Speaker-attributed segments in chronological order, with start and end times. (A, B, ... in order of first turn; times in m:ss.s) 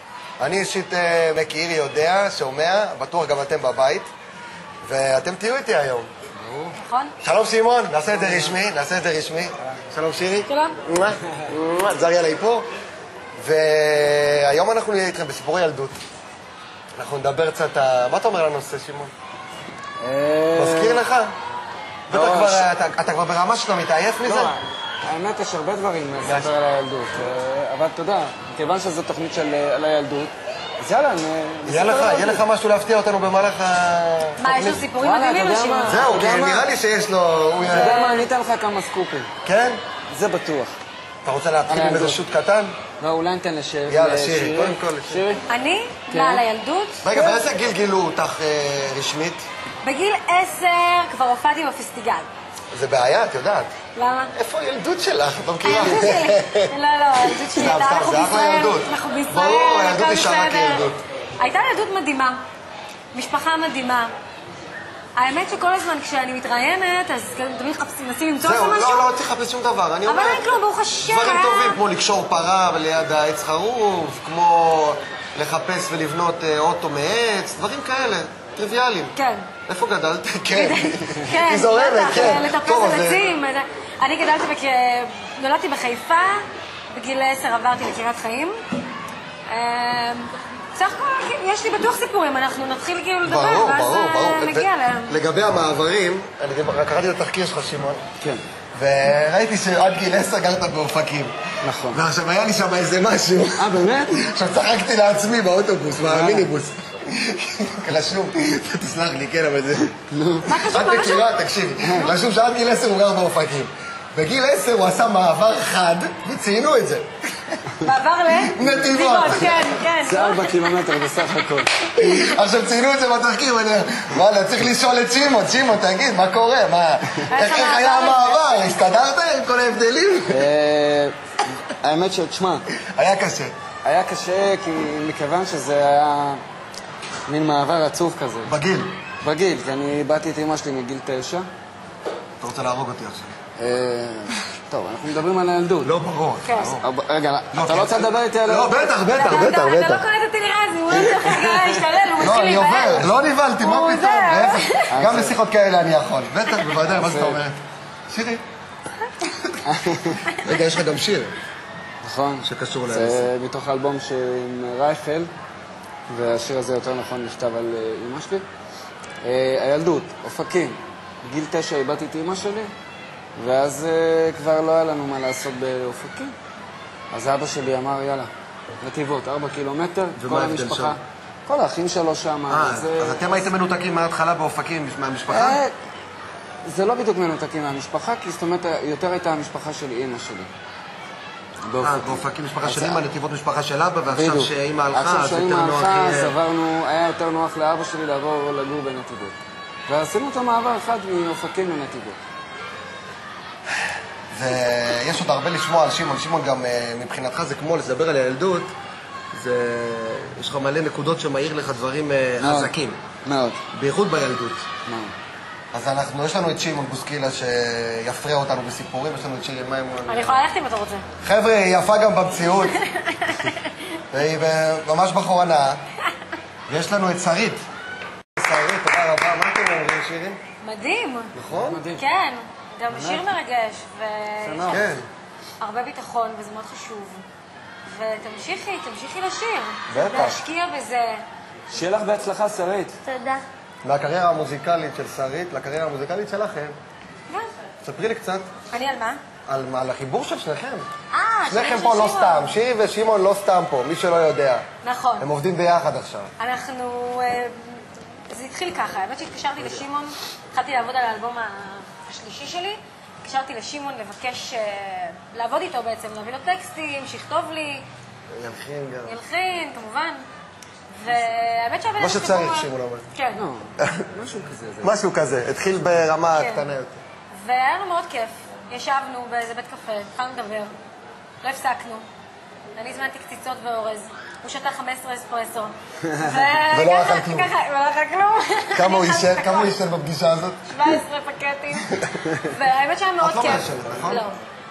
0:00.4-0:04.1 A
0:04.8-0:06.1 A
0:06.4-0:06.7 B
0:06.8-0:07.1 C
0:07.2-0:12.6 A
0:08.2-0:08.5 B
0:10.5-0:10.8 C
0:13.4-0:16.0 A
0:16.9-0:19.1 A
0:20.0-0:21.0 B
0:20.5-0:21.3 A
0:22.1-0:22.7 B
0:22.1-0:24.5 A
0:24.2-0:32.4 B
0:26.2-0:26.5 A
0:31.6-0:34.8 A
0:34.4-0:36.1 C
0:35.0-0:36.7 B
0:35.9-0:38.0 A
0:37.6-0:39.3 B
0:37.7-0:38.2 C
0:39.4-0:39.8 A
0:40.1-0:40.8 B
0:41.2-0:42.7 A
0:41.7-0:42.2 B
0:43.0-0:45.4 B
0:43.9-0:45.2 A
0:45.5-0:47.4 C
0:46.1-0:46.4 B
0:47.0-0:49.4 A
0:49.8-0:52.3 C
0:52.7-0:53.7 A
0:53.9-0:54.3 C
0:54.3-0:56.7 A
0:55.6-1:02.4 C
0:57.5-1:01.0 A
1:03.1-1:04.1 C
1:05.2-1:09.1 C
1:08.4-1:10.5 A
1:10.0-1:11.8 C
1:11.0-1:19.1 A
1:19.2-1:19.5 C
1:19.7-1:23.2 A
1:20.5-1:28.5 C
1:29.5-1:35.2 C
1:33.2-1:38.0 A
1:38.7-1:50.0 A
1:41.6-1:42.0 B
1:43.6-1:44.1 B
1:46.0-1:46.5 B
1:50.1-1:50.7 B
1:50.4-1:51.3 C
1:50.6-1:57.6 A
1:51.8-1:52.1 B
1:57.8-2:00.5 C
1:58.3-1:59.8 A
1:58.6-1:59.2 B
2:00.0-2:01.9 B
2:01.9-2:10.4 A
2:07.3-2:08.5 C
2:10.3-2:12.6 B
2:12.8-2:13.5 A
2:13.8-2:16.4 B
2:17.3-2:18.5 B
2:18.4-2:19.0 A
2:19.2-2:21.5 B
2:22.4-2:23.3 A
2:23.6-2:25.9 B
2:25.8-2:26.9 A
2:26.4-2:26.8 C
2:26.8-2:28.9 B
2:27.5-2:30.0 A
2:29.1-2:34.9 C
2:30.9-2:32.0 B
2:32.2-2:38.4 A
2:34.9-2:35.4 B
2:36.9-2:37.4 B
2:39.6-2:40.2 B
2:40.3-2:41.3 A
2:42.0-2:45.3 B
2:42.4-2:43.3 A
2:46.1-2:48.4 B
2:49.2-2:52.7 B
2:53.4-2:56.3 B
2:57.1-2:58.3 B
2:58.8-3:03.4 B
3:00.2-3:01.0 A
3:02.5-3:05.6 A
3:05.3-3:05.8 B
3:06.6-3:10.5 B
3:11.6-3:13.0 B
3:11.8-3:16.4 A
3:14.1-3:19.4 B
3:19.9-3:22.2 B
3:24.3-3:28.7 A
3:29.3-3:33.0 A
3:32.4-3:32.7 B
3:33.2-3:33.6 B
3:33.7-3:34.7 A
3:34.8-3:35.1 B
3:35.7-3:40.4 A
3:40.1-3:41.0 C
3:41.2-3:42.8 A
3:42.7-3:43.7 C
3:44.1-3:45.8 A
3:46.7-3:47.6 A
3:48.4-3:50.4 A
3:50.6-3:51.3 C
3:51.3-3:51.8 A
3:51.5-3:52.0 B
3:52.0-3:54.9 C
3:52.9-3:53.3 B
3:54.4-3:54.9 B
3:54.7-3:55.0 A
3:55.6-3:57.2 C
3:57.8-4:01.2 C
3:59.9-4:00.4 A
4:01.7-4:03.0 B
4:03.1-4:03.4 C
4:03.8-4:06.8 A
4:07.8-4:08.5 A
4:08.7-4:09.2 C
4:09.5-4:10.9 A
4:11.1-4:12.6 C
4:11.5-4:14.6 A
4:14.8-4:15.3 C
4:15.2-4:16.3 A
4:16.4-4:27.8 C
4:28.3-4:29.1 A
4:29.0-4:30.2 C
4:30.9-4:33.4 C
4:32.0-4:33.1 A
4:33.4-4:34.9 B
4:34.8-4:37.0 A
4:36.3-4:36.7 C
4:37.3-4:40.7 C
4:41.4-4:42.0 C
4:42.8-4:49.8 C
4:46.7-4:47.5 A
4:48.7-4:51.0 A
4:50.6-4:54.4 C
4:53.2-4:54.3 A